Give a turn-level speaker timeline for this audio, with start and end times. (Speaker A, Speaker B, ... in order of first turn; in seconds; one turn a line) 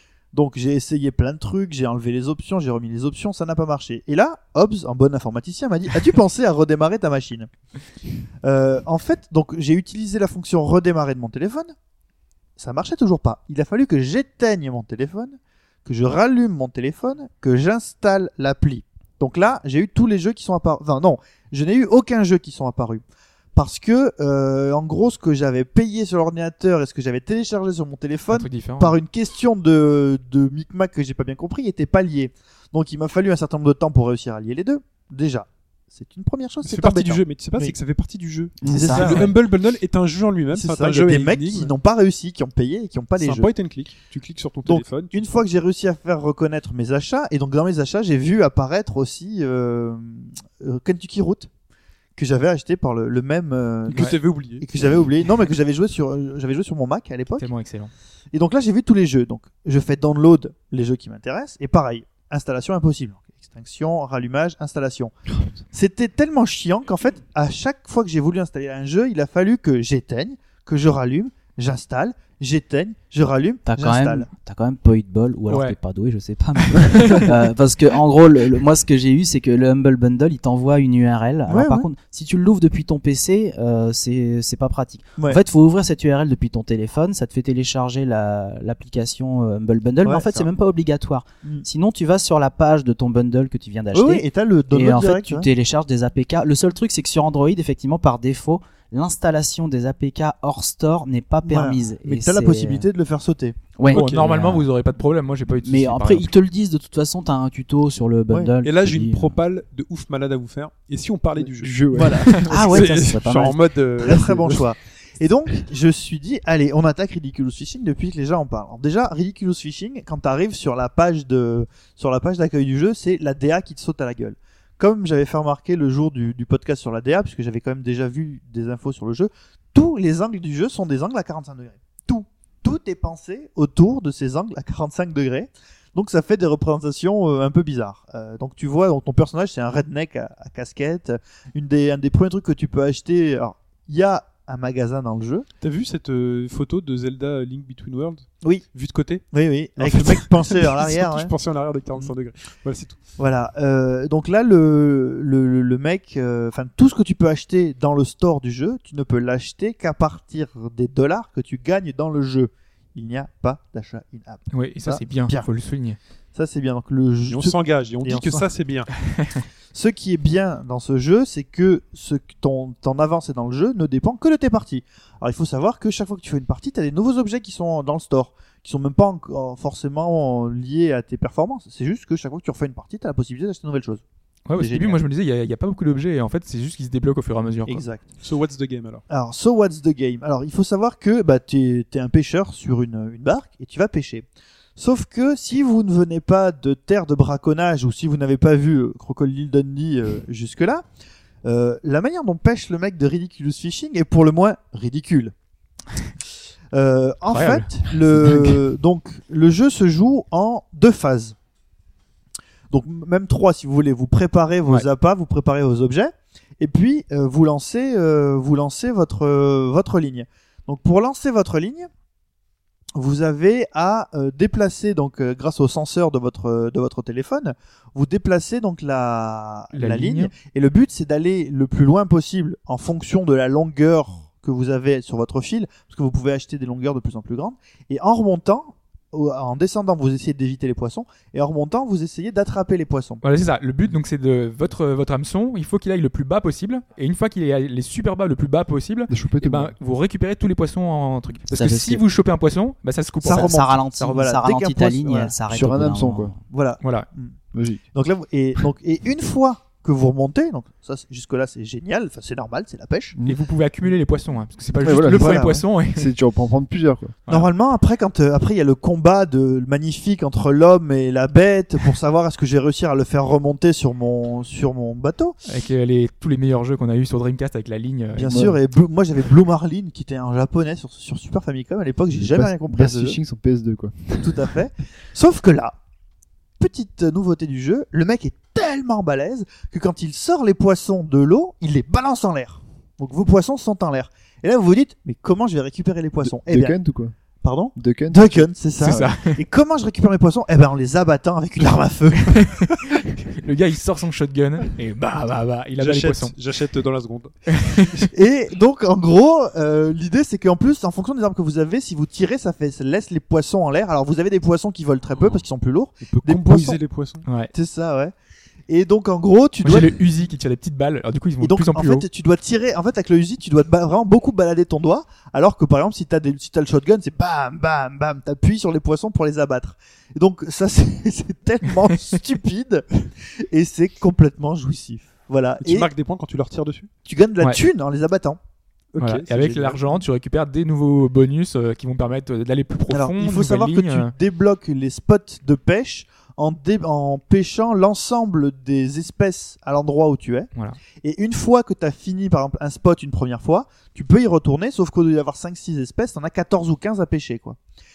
Speaker A: 0.3-7.5
Speaker A: 8.4-11.7
Speaker A: 12.6-23.0
Speaker A: 23.6-37.7
Speaker B: 28.3-29.0
Speaker C: 36.6-41.7
Speaker D: 38.6-39.1
Speaker A: 38.6-39.4
Speaker A: 40.5-43.5
Speaker C: 43.2-45.4
Speaker A: 44.7-51.5
Speaker A: 52.1-57.5
Speaker C: 53.9-54.6
Speaker B: 53.9-54.2
Speaker B: 57.4-57.9
Speaker A: 58.3-65.1
Speaker A: 65.7-74.3
Speaker E: 73.7-102.9
Speaker B: 75.5-75.8
Speaker B: 76.8-77.3
Speaker A: 81.5-81.9
Speaker A: 90.0-90.5
Speaker A: 93.9-95.5
Speaker A: 101.4-103.7
Speaker E: 103.7-104.7
Speaker B: 103.9-106.3
Speaker E: 105.6-109.4
Speaker C: 108.6-114.6
Speaker D: 111.4-112.4
Speaker A: 112.0-112.9
Speaker E: 112.3-113.6
Speaker A: 114.0-145.4
Speaker C: 145.6-149.2
Speaker A: 149.3-151.3
Speaker C: 149.8-153.0
Speaker A: 153.2-165.4
Speaker B: 164.5-166.0
Speaker A: 166.3-168.5
Speaker C: 167.3-168.9
Speaker A: 169.7-184.0
Speaker B: 184.5-187.8
Speaker A: 184.6-185.0
Speaker A: 187.7-188.1
Speaker C: 188.2-189.0
Speaker A: 189.1-194.2
Speaker A: 194.8-200.8
Speaker A: 201.4-205.3
Speaker A: 206.7-211.3
Speaker B: 207.3-207.8
Speaker A: 212.7-221.9
Speaker A: 222.9-243.2
Speaker B: 229.7-230.3
Speaker B: 243.2-253.5
Speaker D: 249.1-249.7
Speaker E: 251.5-252.0
Speaker A: 253.2-255.3
Speaker E: 253.2-256.4
Speaker D: 255.5-256.3
Speaker A: 256.5-257.4
Speaker B: 256.8-257.1
Speaker D: 257.5-257.8
Speaker A: 257.9-263.1
Speaker B: 263.2-266.1
Speaker D: 264.8-267.2
Speaker A: 265.1-265.5
Speaker A: 267.3-275.4
Speaker B: 275.4-278.5
Speaker A: 278.1-283.2
Speaker D: 278.3-278.6
Speaker D: 282.1-284.5
Speaker A: 284.2-285.8
Speaker A: 286.6-296.8
Speaker D: 296.2-297.1
Speaker A: 297.4-302.7
Speaker D: 297.7-299.1
Speaker B: 298.8-299.4
Speaker B: 302.2-306.3
Speaker C: 305.8-308.1
Speaker B: 307.5-308.1
Speaker A: 308.1-316.8
Speaker C: 316.0-317.3
Speaker B: 317.2-317.5
Speaker A: 317.5-318.1
Speaker A: 318.7-320.0
Speaker B: 319.6-322.1
Speaker A: 321.4-335.9
Speaker C: 335.6-336.9
Speaker A: 337.0-338.4
Speaker C: 338.9-339.9
Speaker B: 339.0-344.1
Speaker A: 342.9-350.5
Speaker A: 351.0-357.6